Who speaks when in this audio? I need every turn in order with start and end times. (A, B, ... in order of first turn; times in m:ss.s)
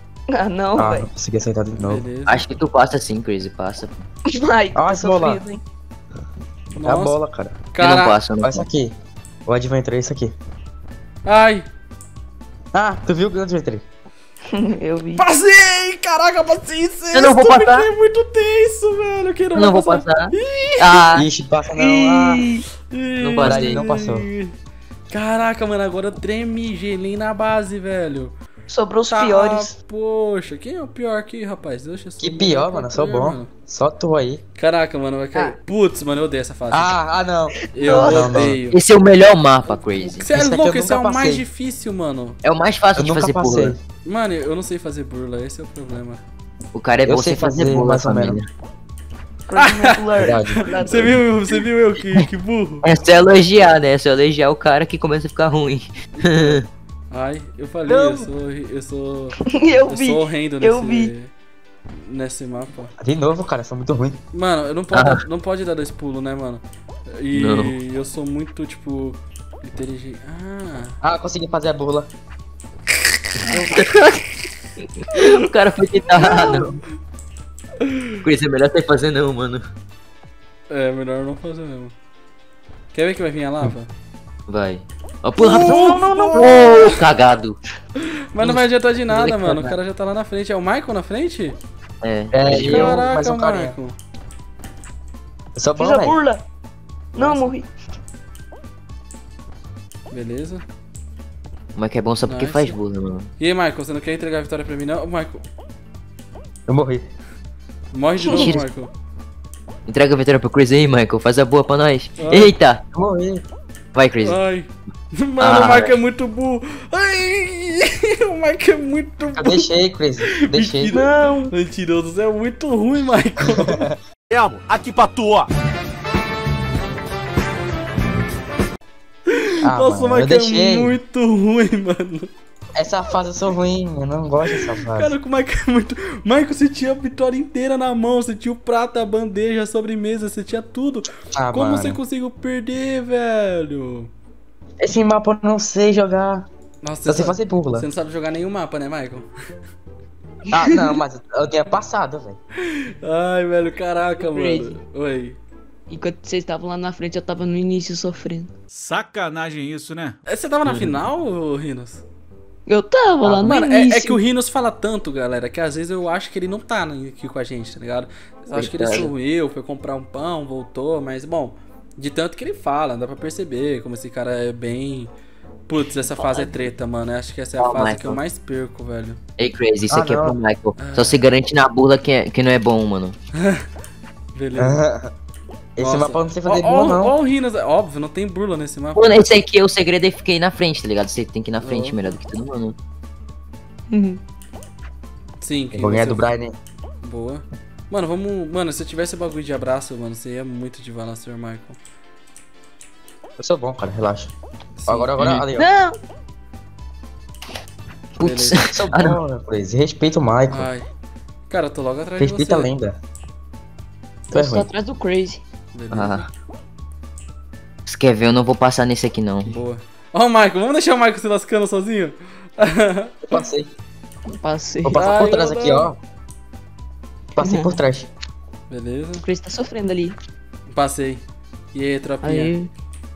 0:00.3-0:01.1 A
0:00.8-0:02.1 B
0:01.8-0:02.4 C
0:02.3-0:04.0 D
0:04.3-0:05.6 A
0:04.8-0:05.4 B
0:06.8-0:07.2 C
0:06.8-0:07.6 B
0:07.7-0:08.2 C
0:07.8-0:08.6 D
0:08.4-0:08.9 B
0:09.5-0:10.4 B
0:11.3-0:11.7 C
0:12.7-0:13.8 B
0:14.5-0:15.2 A
0:15.2-0:21.0 C
0:17.1-0:17.9 D
0:19.5-0:21.3 D
0:21.1-0:22.4 B
0:21.8-0:22.6 A
0:22.9-0:24.5 C
0:23.2-0:23.8 D
0:23.4-0:24.3 B
0:25.1-0:28.3 C
0:28.7-0:29.8 A
0:29.1-0:33.5 C
0:32.2-0:34.4 B
0:34.6-0:36.9 C
0:36.7-0:38.6 B
0:37.7-0:38.8 C
0:37.8-0:38.5 A
0:38.7-0:40.3 D
0:39.7-0:42.4 C
0:40.3-0:41.4 B
0:42.4-0:43.8 D
0:43.0-0:43.8 B
0:44.1-0:46.2 C
0:46.7-0:48.5 D
0:47.0-0:48.4 B
0:49.5-0:51.2 A
0:49.6-0:49.9 C
0:50.2-0:50.6 B
0:50.5-0:52.8 C
0:52.8-0:56.7 D
0:56.2-0:56.6 C
0:57.1-1:01.3 C
0:57.9-0:58.3 B
0:59.4-1:01.1 A
1:01.9-1:02.9 C
1:03.0-1:04.2 B
1:04.3-1:11.0 C
1:04.9-1:05.2 D
1:07.3-1:07.8 D
1:11.0-1:12.1 B
1:13.5-1:14.0 C
1:13.5-1:14.0 D
1:15.0-1:16.8 D
1:16.2-1:16.8 C
1:17.8-1:18.2 C
1:18.2-1:19.6 D
1:20.7-1:21.9 C
1:22.9-1:23.9 C
1:24.5-1:27.6 D
1:25.4-1:27.0 A
1:25.4-1:26.8 C
1:28.3-1:31.6 C
1:28.4-1:29.8 D
1:32.0-1:33.0 D
1:32.3-1:33.8 B
1:32.5-1:34.0 C
1:35.6-1:36.2 B
1:35.8-1:36.4 A
1:37.2-1:37.5 C
1:37.2-1:37.7 A
1:40.1-1:40.6 C
1:41.8-1:43.3 D
1:42.2-1:42.8 C
1:43.4-1:45.4 C
1:46.7-1:47.1 B
1:47.9-1:48.9 C
1:48.3-1:48.6 A
1:48.3-1:48.6 D
1:49.9-1:52.8 D
1:52.2-1:52.5 C
1:52.9-1:53.4 B
1:53.9-1:54.4 D
1:54.2-1:59.7 C
1:55.4-1:56.0 D
1:59.4-2:01.0 B
2:00.4-2:03.9 C
2:00.9-2:01.5 A
2:04.3-2:05.5 E
2:09.3-2:12.3 C
2:09.6-2:11.0 B
2:12.8-2:15.1 B
2:14.5-2:24.1 C
2:21.3-2:22.0 B
2:24.8-2:26.5 B
2:26.8-2:29.3 C
2:27.1-2:27.9 B
2:30.5-2:32.4 B
2:30.5-2:30.8 A
2:33.0-2:35.4 C
2:34.2-2:34.8 A
2:35.9-2:38.5 A
2:38.8-2:40.2 E
2:40.3-2:42.0 C
2:40.7-2:41.0 D
2:42.7-2:44.2 A
2:43.3-2:55.1 C
2:48.5-2:49.1 D
2:55.7-2:59.2 C
2:57.6-2:58.2 D
2:59.4-3:03.2 D
2:59.9-3:00.4 B
3:00.8-3:01.2 C
3:03.4-3:03.7 C
3:04.4-3:04.8 C
3:04.6-3:05.1 B
3:05.8-3:07.2 B
3:05.8-3:09.2 C
3:09.0-3:12.8 D
3:11.6-3:12.0 C
3:13.9-3:14.2 A
3:15.4-3:16.3 C
3:15.7-3:16.5 B
3:17.0-3:21.8 C
3:23.4-3:24.3 B
3:24.8-3:25.1 C
3:24.9-3:25.7 B
3:25.2-3:25.5 D
3:25.6-3:26.0 A
3:28.2-3:29.2 D
3:28.2-3:28.6 C
3:28.6-3:30.7 B
3:30.5-3:30.9 C
3:31.5-3:32.7 C
3:32.2-3:33.0 B
3:34.3-3:35.4 A
3:34.3-3:34.7 B
3:35.7-3:36.3 C
3:35.9-3:36.3 D
3:37.9-3:39.5 D
3:39.5-3:43.2 C
3:43.3-3:43.7 B
3:44.3-3:45.0 A
3:44.8-3:46.0 B
3:44.9-3:45.9 C
3:47.4-3:48.1 B
3:47.4-3:47.8 A
3:48.7-3:49.2 C
3:49.2-3:50.2 A
3:50.7-3:51.2 C
3:51.7-3:52.6 C
3:52.2-3:52.7 A